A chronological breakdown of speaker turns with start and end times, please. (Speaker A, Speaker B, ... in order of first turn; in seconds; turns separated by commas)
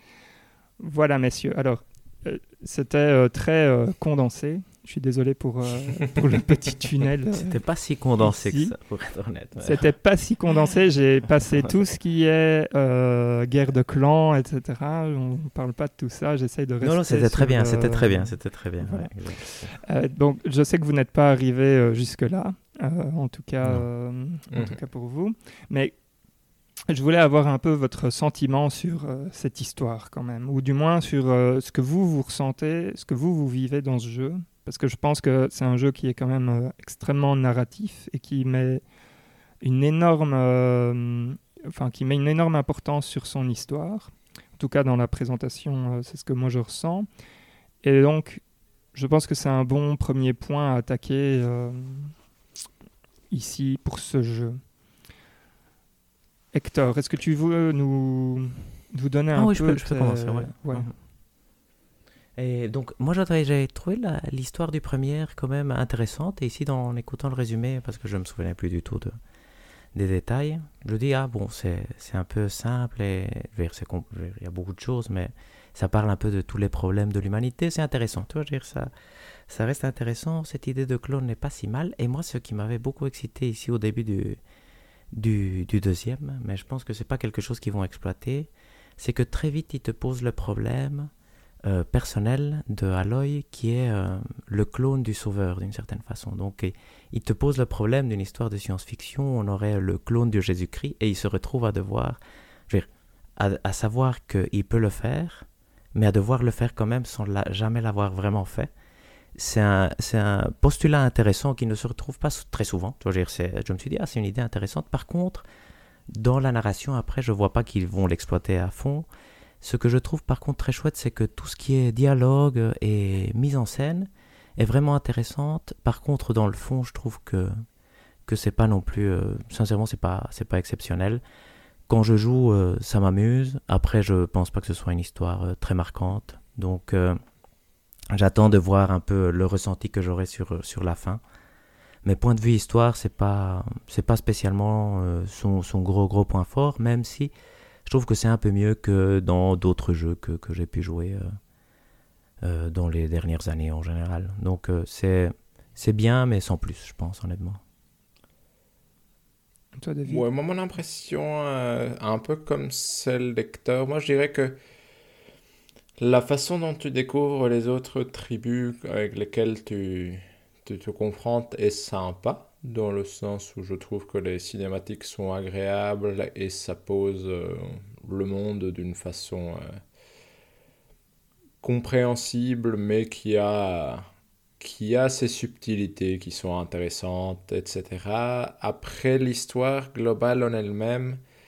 Speaker A: 0.8-7.6, Speaker B: 7.3-9.8, Speaker A: 8.2-8.7, Speaker A: 9.6-25.9, Speaker B: 16.8-19.7, Speaker C: 24.5-24.8, Speaker A: 26.9-38.8, Speaker A: 39.6-47.1, Speaker A: 47.8-48.4, Speaker A: 48.9-52.1, Speaker A: 53.3-54.6, Speaker A: 56.5-60.9, Speaker B: 59.3-60.9, Speaker B: 62.4-69.2, Speaker B: 69.9-78.9, Speaker B: 79.5-84.4, Speaker B: 85.1-91.1, Speaker B: 91.6-108.7, Speaker B: 109.3-115.4, Speaker B: 116.1-119.1, Speaker B: 119.6-127.6, Speaker B: 128.2-131.2, Speaker B: 131.9-137.2, Speaker B: 138.1-141.2, Speaker B: 142.0-147.3, Speaker B: 147.8-151.3, Speaker B: 152.4-157.6, Speaker A: 159.8-160.2, Speaker C: 160.1-164.6, Speaker C: 166.0-179.8, Speaker C: 181.6-184.1, Speaker C: 184.6-191.2